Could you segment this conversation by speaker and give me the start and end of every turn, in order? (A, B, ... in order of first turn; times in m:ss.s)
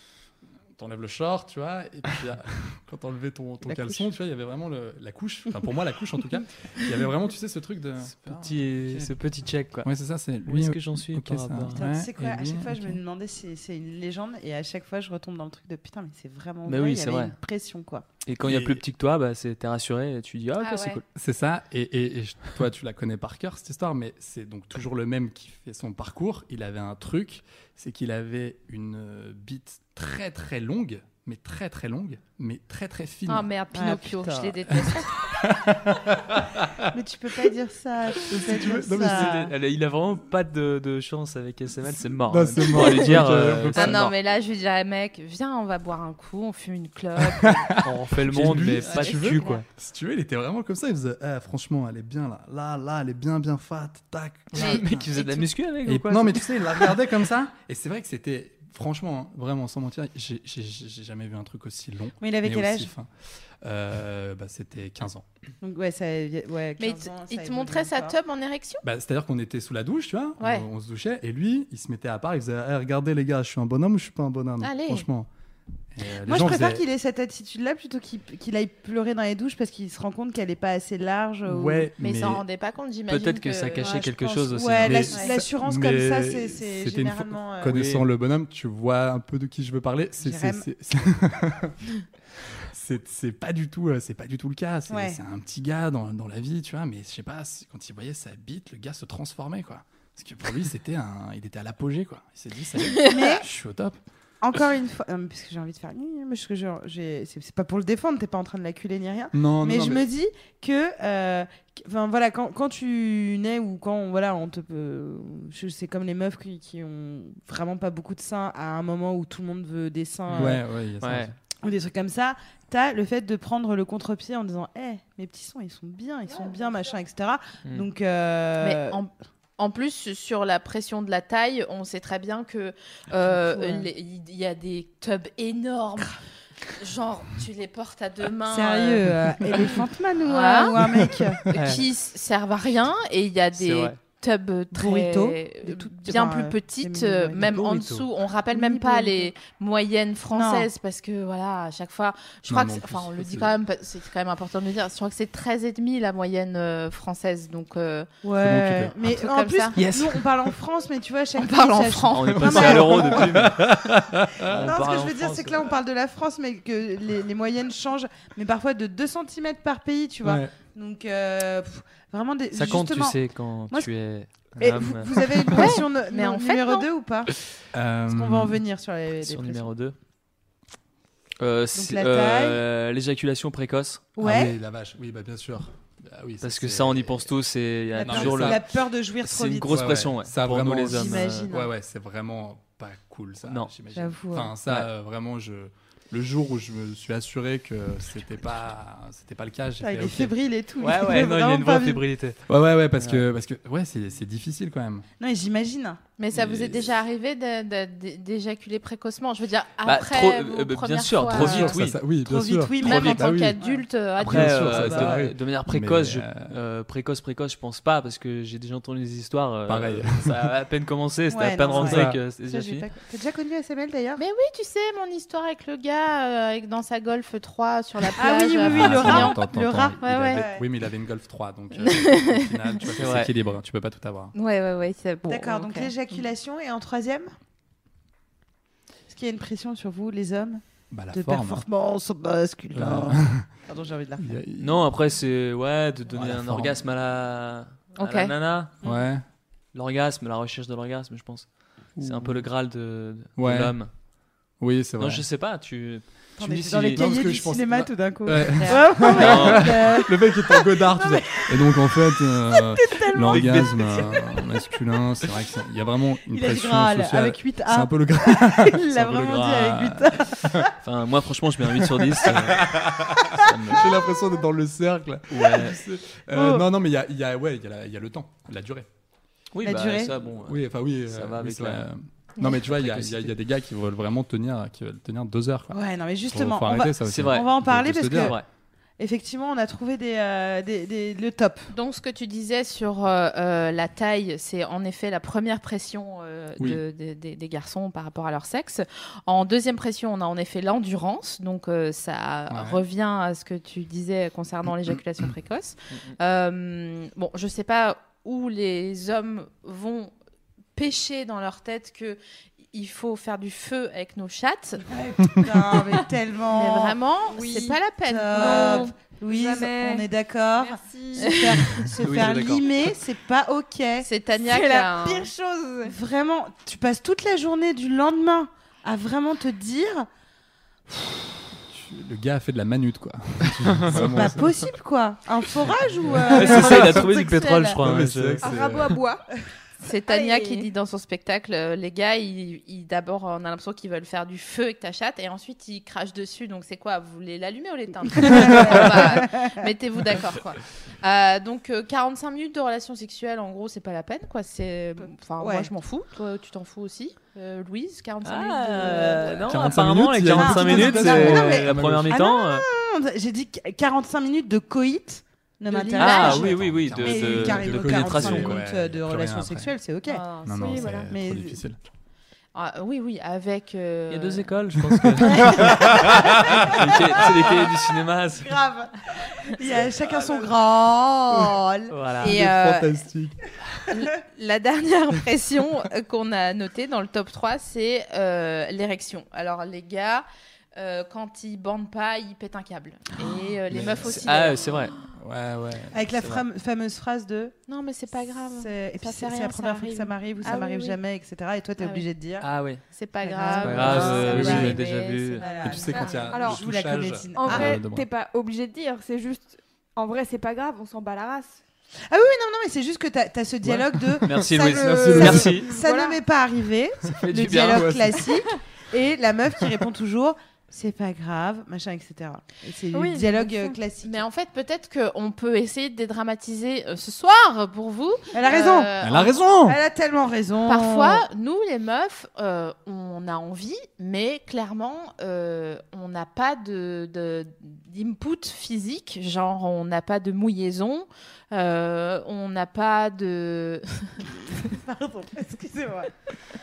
0:00.8-0:09.1 A
0:03.6-0:04.1 B
0:08.1-0:09.9 C
0:09.8-0:13.0 A
0:10.5-0:11.8 C
0:11.7-0:18.0 B
0:16.7-0:17.4 C
0:18.3-0:21.0 C
0:18.4-0:18.8 A
0:20.6-0:21.0 D
0:21.1-0:33.5 A
0:33.3-0:35.2 D
0:33.7-0:34.7 B
0:34.7-0:36.9 A
0:36.9-0:39.5 B
0:38.2-0:39.5 A
0:38.9-0:44.1 C
0:42.3-0:44.1 A
0:42.8-0:43.2 D
0:43.7-0:47.7 D
0:47.2-0:55.1 A
0:47.8-0:49.7 C
0:48.8-0:49.6 D
0:54.5-0:57.0 C
0:54.6-0:55.5 D
0:55.9-1:03.1 A
1:02.2-1:02.9 B
1:03.6-1:05.2 A
1:05.6-1:08.2 B
1:06.8-1:08.8 D
1:08.8-1:15.3 A
1:10.4-1:10.6 D
1:14.6-1:15.1 D
1:15.9-1:16.8 A
1:16.2-1:21.9 B
1:21.5-1:22.4 A
1:22.0-1:24.1 D
1:23.1-1:25.1 C
1:23.8-1:27.8 B
1:24.8-1:31.8 A
1:27.6-1:28.0 C
1:30.2-1:30.7 B
1:32.6-1:44.0 A
1:34.9-1:35.2 B
1:43.0-1:43.2 D
1:43.0-1:43.5 B
1:44.4-2:00.6 B
1:49.3-1:50.0 A
2:00.3-2:01.3 C
2:00.4-2:01.3 A
2:01.6-2:09.0 B
2:08.6-2:16.2 D
2:13.3-2:13.9 B
2:16.7-2:19.1 D
2:18.5-2:21.4 B
2:20.2-2:20.8 D
2:20.8-2:21.3 A
2:21.5-2:38.1 D
2:21.5-2:21.8 C
2:23.6-2:24.0 C
2:24.7-2:27.7 B
2:27.5-2:28.0 A
2:28.5-2:29.3 B
2:30.3-2:30.7 B
2:32.5-2:33.5 A
2:38.2-2:43.5 B
2:38.4-2:39.0 A
2:39.0-2:39.8 D
2:39.8-2:40.3 C
2:41.4-2:42.9 D
2:42.1-2:43.9 C
2:42.3-2:44.6 A
2:44.4-2:45.8 C
2:44.5-2:53.2 B
2:50.2-2:50.5 A
2:52.5-2:55.4 C
2:54.6-2:57.4 B
2:55.5-2:56.9 D
2:57.7-2:58.6 A
2:58.1-2:59.7 B
2:59.2-3:00.0 C
3:01.4-3:04.1 C
3:01.7-3:02.6 B
3:04.2-3:04.6 B
3:04.2-3:07.2 A
3:06.4-3:08.6 C
3:08.0-3:09.9 B
3:08.0-3:08.6 A
3:09.2-3:11.5 C
3:09.7-3:20.3 A
3:10.9-3:11.7 B
3:13.4-3:13.7 C
3:13.9-3:14.5 B
3:19.8-3:22.0 B
3:20.8-3:22.4 C
3:22.5-3:25.1 A
3:23.0-3:23.2 C
3:25.2-3:26.0 B
3:26.2-3:31.7 D
3:26.3-3:26.9 A
3:29.8-3:32.0 C
3:31.3-3:33.6 A
3:31.4-3:33.8 B
3:32.8-3:34.7 D
3:32.8-3:33.2 C
3:34.2-3:36.6 A
3:34.2-3:42.9 C
3:34.7-3:35.2 B
3:39.7-3:40.5 A
3:41.3-3:44.2 B
3:41.7-3:42.2 A
3:44.2-3:49.4 D
3:48.1-3:50.7 B
3:48.6-3:54.3 A
3:50.0-3:50.5 D
3:51.8-3:52.4 D
3:52.9-3:53.3 C
3:54.3-3:55.9 D
3:55.3-3:57.3 B
3:59.1-4:04.4 B
4:00.9-4:01.6 A
4:02.7-4:03.5 A
4:04.2-4:04.8 A
4:04.6-4:08.8 C
4:06.1-4:06.8 A
4:08.0-4:08.3 D
4:08.8-4:09.2 A
4:09.7-4:13.9 C
4:12.0-4:12.4 A
4:13.4-4:13.8 A
4:14.6-4:15.2 A
4:15.0-4:17.3 C
4:16.4-4:24.4 B
4:16.9-4:30.7 A
4:18.7-4:20.0 C
4:23.3-4:24.3 C
4:26.3-4:30.7 B
4:30.8-4:34.0 C
4:31.8-4:38.9 A
4:35.3-4:35.8 C
4:36.3-4:36.7 B
4:39.5-4:41.9 C
4:39.6-4:40.1 B
4:40.4-4:45.8 A
4:42.4-4:43.3 C
4:45.7-4:48.4 B
4:46.3-4:48.4 A
4:47.0-4:48.5 C
4:49.0-4:51.7 B
4:51.7-5:10.1 D
5:02.5-5:02.8 A
5:10.8-5:12.2 D
5:12.7-5:14.9 D
5:14.8-5:17.0 B
5:16.5-5:18.9 D
5:17.3-5:17.8 E
5:18.0-5:24.1 B
5:18.3-5:20.1 E
5:20.6-5:21.6 E
5:21.2-5:21.8 D
5:21.9-5:22.7 C
5:24.0-5:25.3 D
5:24.4-5:25.9 E
5:25.8-5:30.1 B
5:31.7-5:34.7 A
5:33.8-5:37.8 B
5:36.0-5:37.0 A
5:36.3-5:38.5 C
5:37.8-5:39.0 A
5:38.4-5:39.2 E
5:39.8-5:59.5 D
5:40.1-5:40.7 E
5:48.1-5:49.7 B
5:55.4-5:55.7 B
5:58.2-6:02.7 C
5:59.5-6:02.2 A
6:00.2-6:10.2 B
6:05.7-6:06.6 D
6:06.0-6:08.6 C
6:06.1-6:09.7 A
6:10.1-6:11.0 D
6:10.5-6:11.8 A
6:10.5-6:11.1 E
6:11.0-6:11.6 B
6:12.5-6:14.5 D
6:14.1-6:18.6 C
6:14.8-6:17.5 A
6:18.4-6:22.0 B
6:21.9-6:22.3 C
6:22.2-6:22.9 D
6:22.2-6:23.9 A
6:23.9-6:34.8 D
6:33.7-6:34.2 A
6:34.0-6:35.0 C
6:35.1-6:36.0 A
6:35.9-6:37.6 B
6:37.7-6:41.0 D
6:38.5-6:42.5 B
6:41.8-6:42.0 D
6:42.4-6:42.8 C
6:42.9-6:46.2 D
6:43.2-6:44.7 B
6:43.6-6:45.4 C
6:43.8-6:44.8 A
6:45.4-6:47.8 B
6:45.6-6:48.1 A
6:46.3-6:46.6 E
6:47.3-6:51.6 E
6:52.1-7:04.2 B
6:53.6-6:55.7 A
6:54.2-6:55.7 C
6:54.8-6:56.2 E
6:57.2-6:58.0 C
6:57.4-6:58.2 A
7:02.9-7:03.8 E
7:04.0-7:09.4 D
7:08.3-7:08.9 B
7:09.0-7:09.8 A
7:09.6-7:11.3 B
7:10.7-7:24.3 D
7:24.4-7:26.1 B